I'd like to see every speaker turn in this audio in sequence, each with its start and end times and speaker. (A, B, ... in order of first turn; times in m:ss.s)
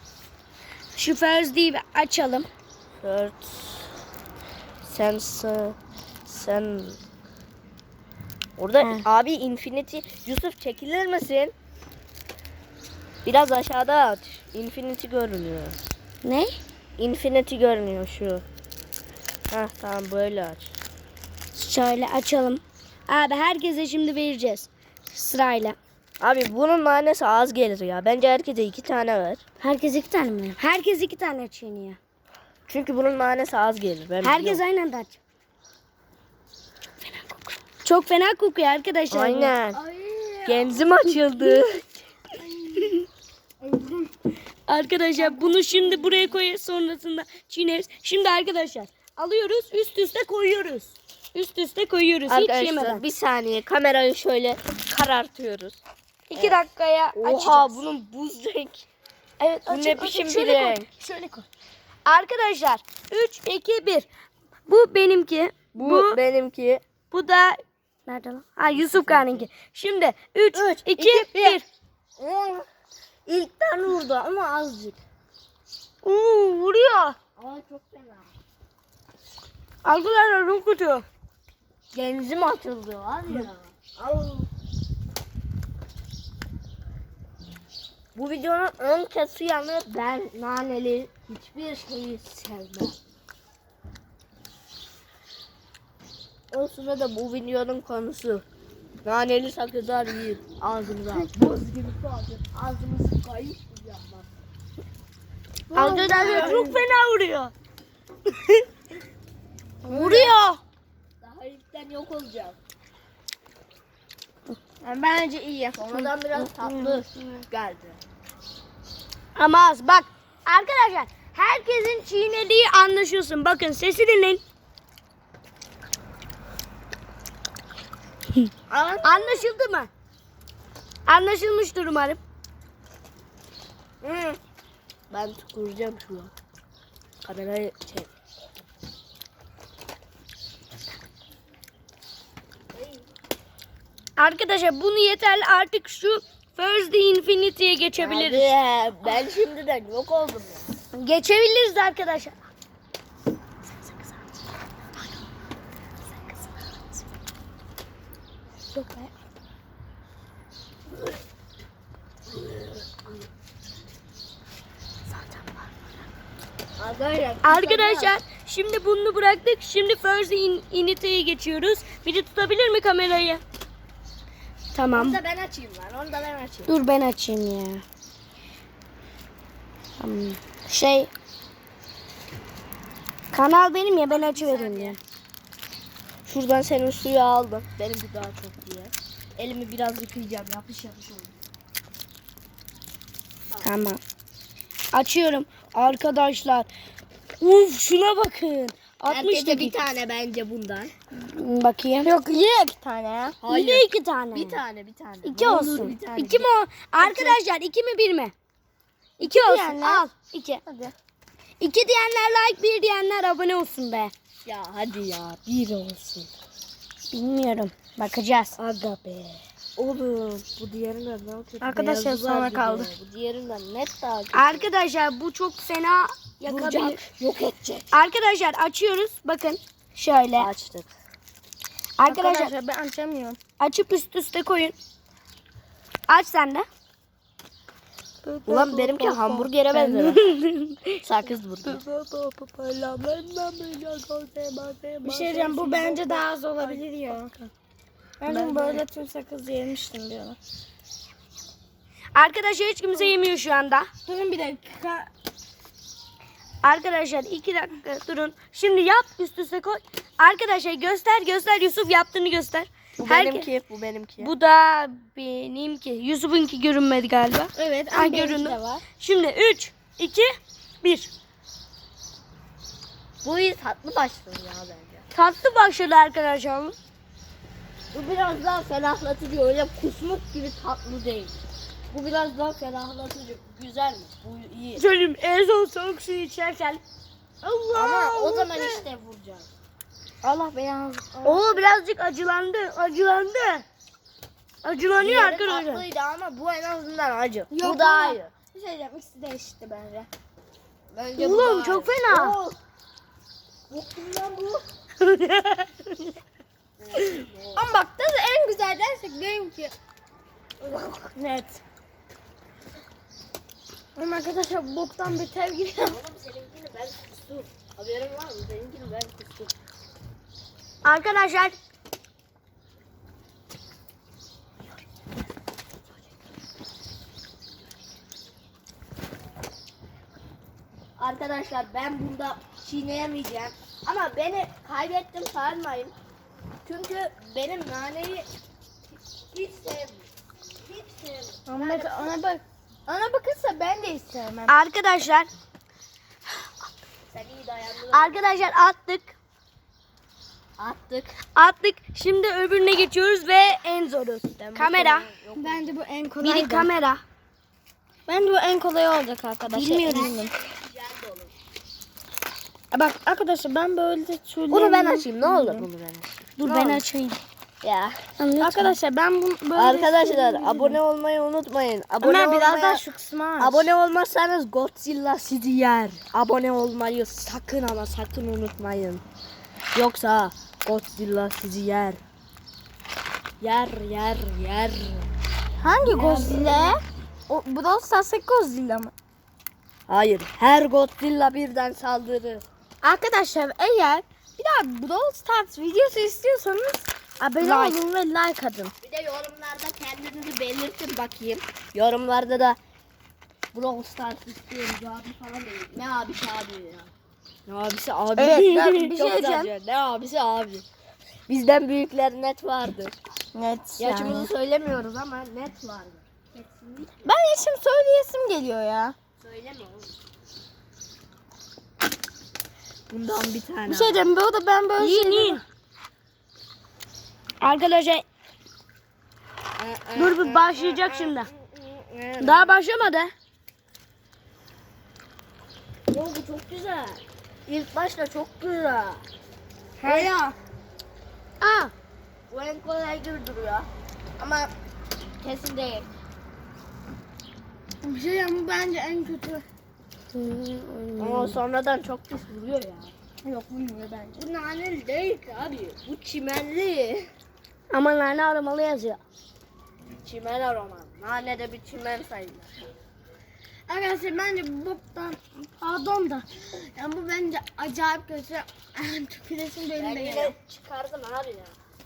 0:00.9-0:02.5 A
0:03.0-0:03.8 B
0:04.8-0:07.0 B
0:08.6-0:11.5 B
0:08.8-0:09.0 A
0:13.2-0:15.8 B
0:16.2-0:16.6 A
0:17.0-0:18.4 B
0:19.5-0:20.7 B
0:21.5-0:25.8 A
0:26.2-0:29.4 B
0:29.6-0:32.0 A
0:32.7-0:34.6 B
0:34.2-0:35.2 A
0:37.0-0:39.5 A
0:39.1-0:39.8 B
0:39.7-0:40.8 C
0:40.4-0:42.0 B
0:42.3-0:43.0 C
0:43.6-0:44.1 C
0:44.7-0:53.0 A
0:45.3-0:45.6 C
0:52.3-0:55.8 B
0:56.3-0:57.8 A
0:56.3-0:56.6 B
0:57.1-0:58.8 B
0:59.4-1:01.3 A
0:59.7-1:00.9 B
1:01.1-1:01.4 C
1:02.0-1:04.1 A
1:04.7-1:06.2 A
1:05.7-1:06.8 B
1:07.1-1:11.6 A
1:08.7-1:09.4 B
1:10.5-1:11.6 B
1:12.2-1:12.6 B
1:13.2-1:15.0 B
1:16.0-1:17.2 A
1:17.4-1:18.3 B
1:19.8-1:21.0 A
1:21.9-1:24.5 B
1:28.1-1:33.0 B
1:36.5-1:38.4 B
1:39.0-1:44.3 B
1:45.7-1:46.8 C
1:45.7-1:47.5 A
1:46.0-1:46.6 B
1:49.8-1:50.6 A
1:49.9-1:50.3 C
1:51.2-1:52.6 B
1:54.8-1:56.1 C
1:55.8-1:58.0 B
1:56.6-1:57.0 A
1:59.4-2:04.4 A
2:08.7-2:09.5 B
2:09.0-2:09.9 A
2:11.1-2:12.2 A
2:14.0-2:14.4 B
2:15.1-2:16.3 B
2:17.2-2:18.1 B
2:24.2-2:28.5 A
2:28.0-2:30.7 B
2:30.9-2:32.4 A
2:38.8-2:39.1 A
2:42.3-2:43.3 B
2:45.1-2:45.6 A
2:46.8-2:48.2 B
2:47.4-2:53.4 A
2:54.7-2:55.2 A
2:54.9-2:56.7 B
2:56.7-2:57.8 A
3:00.0-3:01.1 A
3:03.3-3:05.0 A
3:04.1-3:05.0 B
3:06.2-3:11.4 B
3:13.6-3:14.0 A
3:14.9-3:16.7 A
3:17.4-3:19.8 A
3:19.1-3:20.9 B
3:21.2-3:22.1 A
3:22.0-3:23.4 C
3:23.4-3:26.5 B
3:23.5-3:24.6 A
3:25.2-3:28.3 A
3:27.0-3:27.4 B
3:29.2-3:30.6 A
3:29.2-3:30.1 C
3:30.6-3:30.9 C
3:31.6-3:34.1 A
3:34.4-3:36.3 B
3:37.1-3:38.6 A
3:38.6-3:44.7 B
3:41.6-3:42.9 C
3:44.3-3:47.1 A
3:46.4-3:47.9 B
3:47.9-3:50.5 A
3:50.4-3:50.9 B
3:52.0-3:52.5 A
3:52.1-3:53.4 C
3:53.6-3:54.8 A
3:56.1-3:56.7 A
3:58.2-4:01.0 A
3:58.5-4:00.2 B
4:01.0-4:01.8 B
4:01.6-4:06.0 A
4:05.0-4:07.3 C
4:05.6-4:06.2 B
4:08.2-4:10.4 C
4:08.3-4:08.8 A
4:12.1-4:13.9 A
4:14.0-4:15.1 C
4:16.6-4:23.5 A
4:23.0-4:24.3 B
4:24.2-4:30.3 A
4:27.5-4:28.8 C
4:30.8-4:31.1 A
4:33.2-4:35.0 B
4:35.1-4:36.8 A
4:37.9-4:41.4 B
4:41.9-4:44.8 B
4:44.8-4:46.8 A
4:47.4-4:48.8 C
4:47.7-4:49.5 B
4:50.2-4:51.6 C
4:51.2-4:53.6 A
4:54.6-4:55.8 A
4:55.0-4:58.3 B
4:57.5-5:00.1 C
5:00.9-5:02.6 B
5:01.2-5:02.4 A
5:03.7-5:04.6 B
5:05.0-5:05.7 A
5:06.8-5:07.7 B
5:07.5-5:09.7 C
5:10.6-5:11.1 B
5:11.1-5:11.6 C
5:14.0-5:16.0 C
5:15.8-5:19.5 B
5:20.8-5:21.6 A
5:31.0-5:35.9 B
5:36.6-5:38.3 B
5:39.3-5:40.1 B
5:40.6-5:42.2 B
5:41.5-5:44.6 C
5:44.5-5:45.3 A
5:47.1-5:48.2 B
5:47.9-5:49.1 A
5:50.6-5:51.1 B
5:51.4-5:55.1 A
5:54.4-5:55.8 B
5:55.4-5:56.7 C
5:56.2-5:57.0 A
5:58.1-6:00.3 C
5:59.5-6:00.2 A
5:59.8-6:01.3 B
6:02.7-6:05.7 C
6:04.5-6:06.8 B
6:06.4-6:07.2 A
6:07.6-6:08.0 B
6:08.2-6:08.8 A
6:08.4-6:10.8 C
6:09.5-6:12.8 B
6:12.0-6:13.7 C
6:13.4-6:19.0 B
6:19.7-6:22.0 B
6:23.4-6:25.1 B
6:25.6-6:28.9 C
6:25.8-6:26.8 B
6:29.9-6:32.4 B
6:32.8-6:38.7 C
6:37.4-6:37.8 A
6:38.8-6:42.6 B
6:43.5-6:46.9 B
6:47.4-6:50.6 B
6:48.2-6:49.5 C
6:51.3-6:52.9 B
6:53.3-6:54.3 C
6:53.8-6:57.0 B
6:57.0-6:59.0 C
6:59.2-7:00.0 B
7:02.9-7:04.0 B
7:03.6-7:05.4 C
7:04.8-7:05.4 A
7:07.4-7:08.0 A
7:09.6-7:12.5 B
7:10.0-7:11.3 A
7:12.2-7:13.1 A
7:15.9-7:19.0 B
7:19.8-7:20.4 C
7:19.8-7:20.1 B
7:21.4-7:21.7 A
7:22.3-7:24.5 B
7:25.2-7:25.9 B
7:27.8-7:29.4 C
7:30.1-7:31.4 A
7:31.0-7:32.9 B
7:33.2-7:34.2 C
7:34.1-7:37.1 B
7:37.7-7:39.0 A
7:40.0-7:42.5 B
7:43.7-7:50.3 C
7:49.8-7:51.6 B